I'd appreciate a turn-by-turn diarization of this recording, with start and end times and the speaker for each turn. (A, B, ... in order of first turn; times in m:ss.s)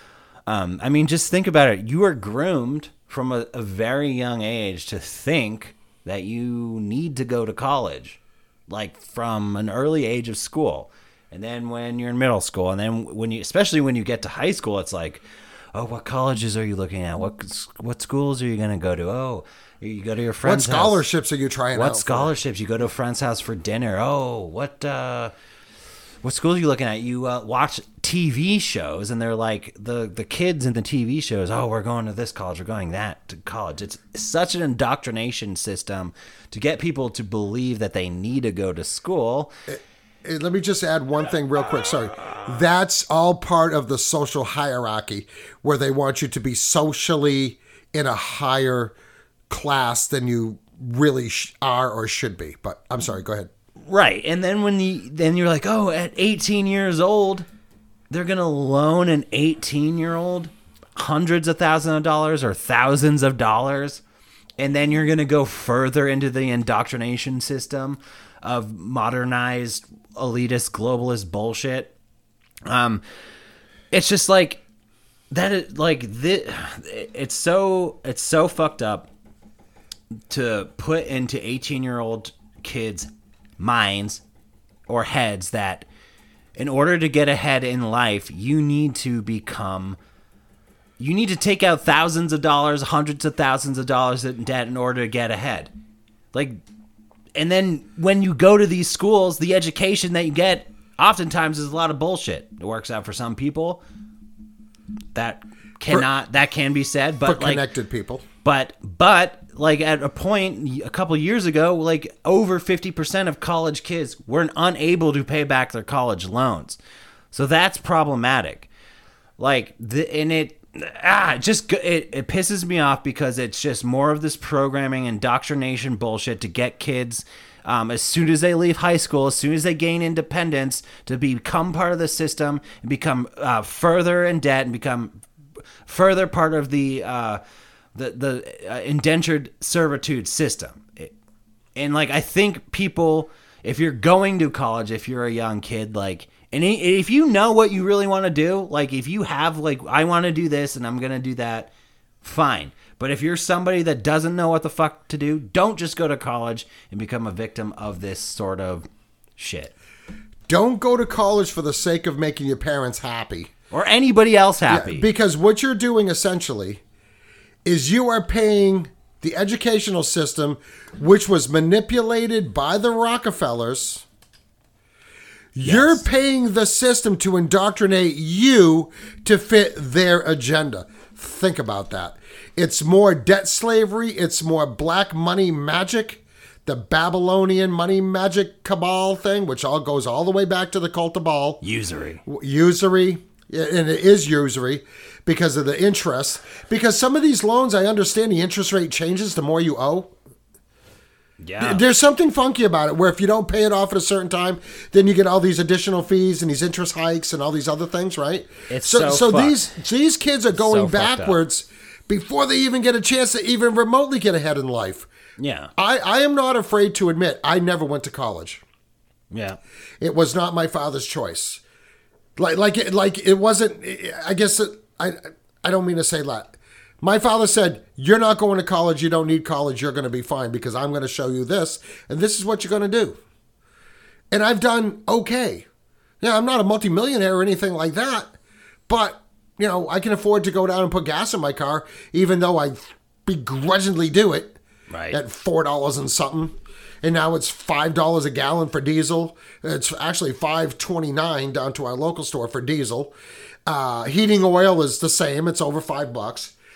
0:00.5-0:21.0 A
0:20.4-0:22.3 B
0:21.7-0:25.3 A
0:26.2-0:39.5 A
0:39.7-0:48.9 B
0:49.5-0:53.5 B
0:53.9-0:57.4 A
0:58.1-1:04.0 A
1:04.6-1:11.9 A
1:12.6-1:13.0 A
1:13.9-1:14.6 A
1:15.3-1:19.1 A
1:20.3-1:24.2 A
1:24.9-1:25.8 A
1:26.6-1:30.0 A
1:31.0-1:35.7 A
1:36.3-1:36.6 A
1:37.3-1:43.8 A
1:45.1-1:47.6 A
1:47.2-1:48.2 B
1:48.4-1:56.8 A
1:57.3-1:58.7 A
1:59.4-2:15.2 A
2:15.8-2:17.4 A
2:17.9-2:21.1 A
2:21.7-2:31.7 A
2:32.2-2:39.7 A
2:40.5-2:43.5 B
2:43.7-2:45.1 A
2:44.7-2:46.8 B
2:47.6-2:54.0 B
2:55.5-3:11.6 B
2:55.6-2:56.0 A
3:11.6-3:12.2 A
3:12.2-3:20.1 B
3:21.4-3:21.8 A
3:21.6-3:35.1 B
3:28.7-3:29.6 A
3:30.5-3:31.4 A
3:35.4-3:35.7 A
3:35.8-3:38.6 B
3:39.3-3:39.6 A
3:40.0-3:41.6 B
3:42.4-3:53.2 B
3:54.3-3:55.7 B
3:56.2-3:58.3 B
3:58.9-4:04.6 B
4:04.9-4:05.2 A
4:05.1-4:13.1 B
4:13.6-4:16.5 B